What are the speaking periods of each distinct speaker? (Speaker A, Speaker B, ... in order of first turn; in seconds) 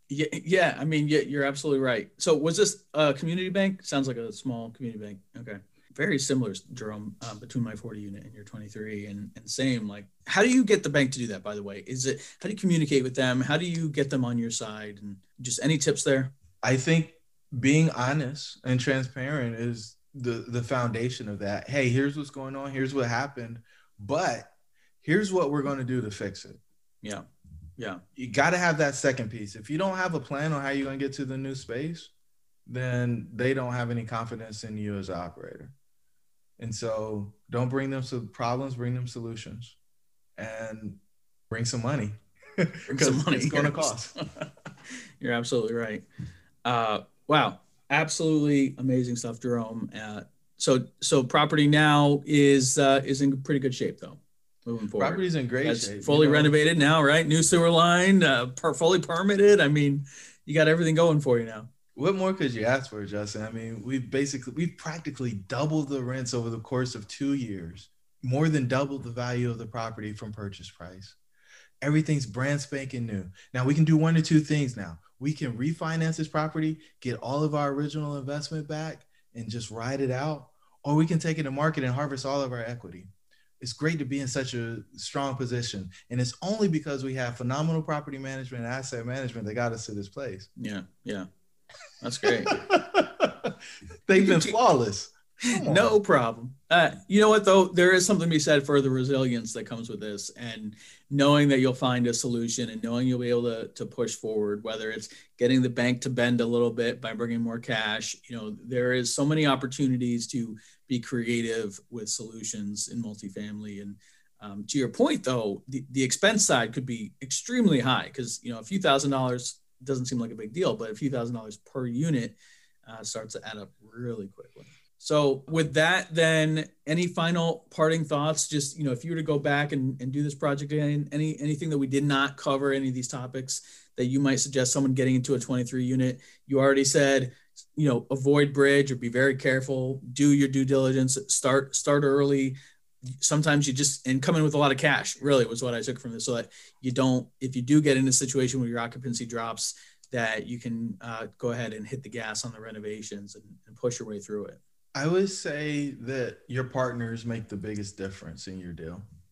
Speaker A: 0.1-16.3, 42.9-44.5, 45.2-46.0, 46.6-61.7, 90.6-91.3, 92.0-92.6, 95.5-142.6, 143.2-154.6
Speaker B: 16.6-26.6, 28.2-32.1, 32.7-35.7, 36.6-39.8, 40.4-41.0, 41.5-44.1, 55.0-56.5, 62.0-71.2, 71.8-83.1, 83.6-90.5, 92.5-93.5, 94.1-96.0, 154.9-159.1